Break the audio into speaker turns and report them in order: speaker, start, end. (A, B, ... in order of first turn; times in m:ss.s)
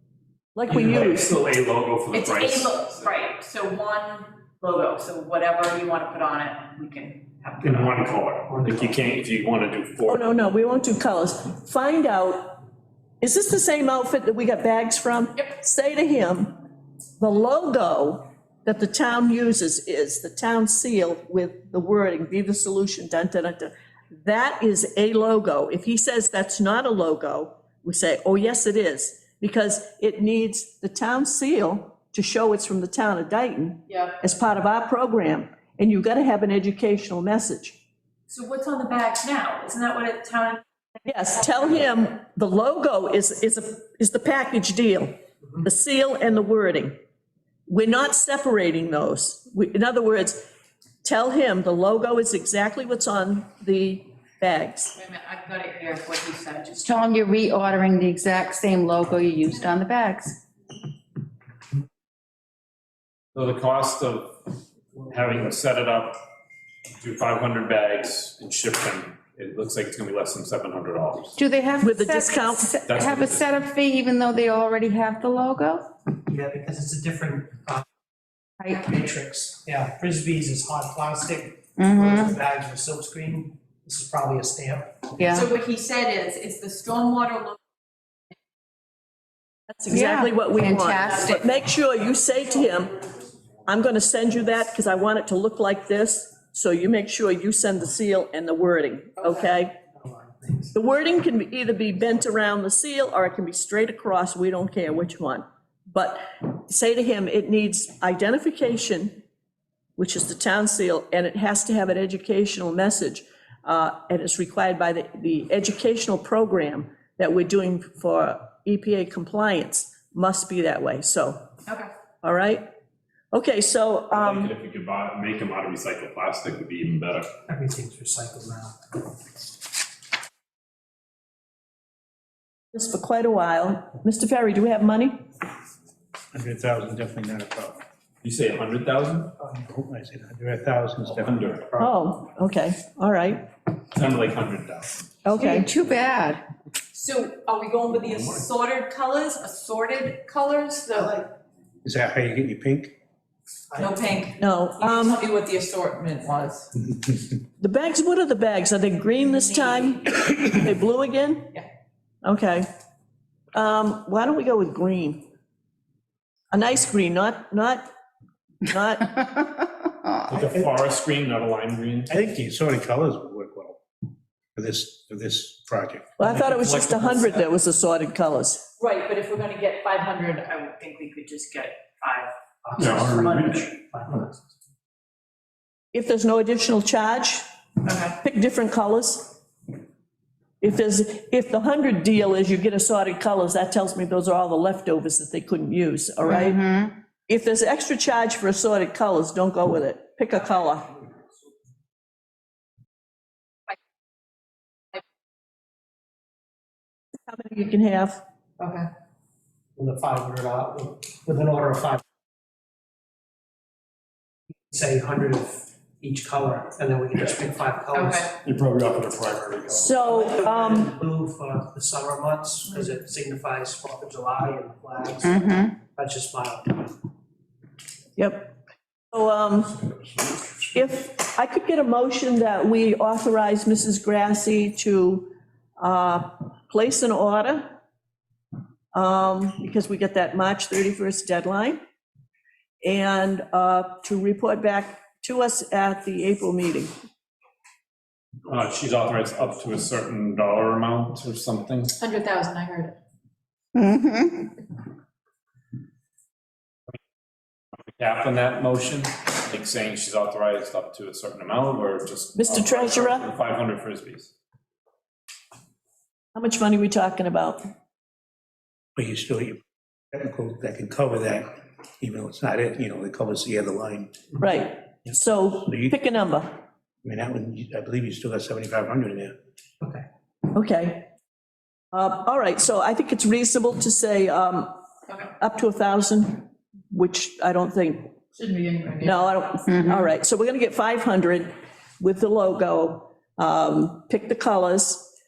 0:00.6-0:01.3 A
0:00.7-0:02.8 B
0:02.1-0:08.1 C
0:07.7-0:10.3 B
0:08.5-0:08.9 D
0:10.1-0:12.6 A
0:13.2-0:16.5 A
0:17.2-0:37.8 A
0:33.9-0:34.2 C
0:38.3-0:40.6 C
0:41.0-0:47.0 A
0:47.7-0:50.5 A
0:51.0-0:54.9 A
0:55.0-0:57.0 C
0:56.8-1:00.4 E
1:03.3-1:04.4 B
1:05.1-1:06.2 B
1:07.0-1:11.4 B
1:11.4-1:15.9 E
1:11.8-1:12.8 A
1:12.9-1:13.5 B
1:16.2-1:17.8 D
1:18.6-1:18.9 E
1:18.7-1:25.2 D
1:21.8-1:22.4 E
1:25.2-1:25.4 E
1:25.3-1:27.6 C
1:29.7-1:33.0 A
1:29.9-1:31.4 E
1:33.7-1:39.8 A
1:39.2-1:39.5 C
1:40.0-1:40.7 D
1:40.7-1:49.2 A
1:50.0-2:01.5 A
2:02.2-2:02.6 A
2:03.3-2:04.5 A
2:04.1-2:07.3 B
2:07.5-2:08.9 D
2:12.7-2:15.2 A
2:16.3-2:17.8 F
2:18.2-2:19.3 B
2:19.4-2:21.9 F
2:21.1-2:21.7 B
2:21.8-2:23.4 A
2:23.9-2:25.0 B
2:25.2-2:25.7 A
2:25.3-2:26.4 E
2:26.9-2:31.3 C
2:31.8-2:32.9 F
2:33.7-2:34.2 D
2:33.8-2:36.7 C
2:34.4-2:35.2 A
2:37.6-2:41.6 A
2:39.2-2:40.5 C
2:42.2-2:42.7 A
2:43.5-2:45.2 A
2:46.5-2:47.8 A
2:48.7-2:49.5 A
2:50.3-2:52.1 B
2:52.1-2:53.8 F
2:54.6-2:56.7 F
2:56.2-2:58.6 A
2:58.8-3:03.6 C
3:02.6-3:04.5 D
3:02.8-3:03.7 B
3:05.9-3:07.4 A
3:07.8-3:08.2 C
3:08.2-3:09.4 A
3:10.6-3:16.6 A
3:16.3-3:16.9 E
3:17.3-3:20.9 A
3:27.3-3:28.2 A
3:28.6-3:28.9 C
3:29.8-3:32.0 D
3:34.7-3:38.4 D
3:37.9-3:38.3 C
3:38.4-3:39.9 B
3:39.7-3:40.9 A
3:39.9-3:46.9 D
3:45.2-3:45.7 E
3:48.2-3:48.5 A
3:49.1-3:55.3 A
3:55.8-3:57.7 A
3:58.9-4:01.8 A
4:02.8-4:06.9 A
4:08.5-4:12.0 B
4:12.0-4:13.0 C
4:13.8-4:14.5 E
4:17.9-4:24.3 B
4:22.4-4:23.3 A
4:26.4-4:27.6 A
4:29.0-4:29.6 F
4:30.1-4:34.2 F
4:34.4-4:36.5 A
4:35.7-4:35.9 F
4:37.0-4:39.4 F
4:40.5-4:41.1 A
4:41.9-4:44.8 A
4:45.4-4:48.1 A
4:48.3-4:49.3 C
4:49.0-4:55.1 A
4:49.7-4:50.0 E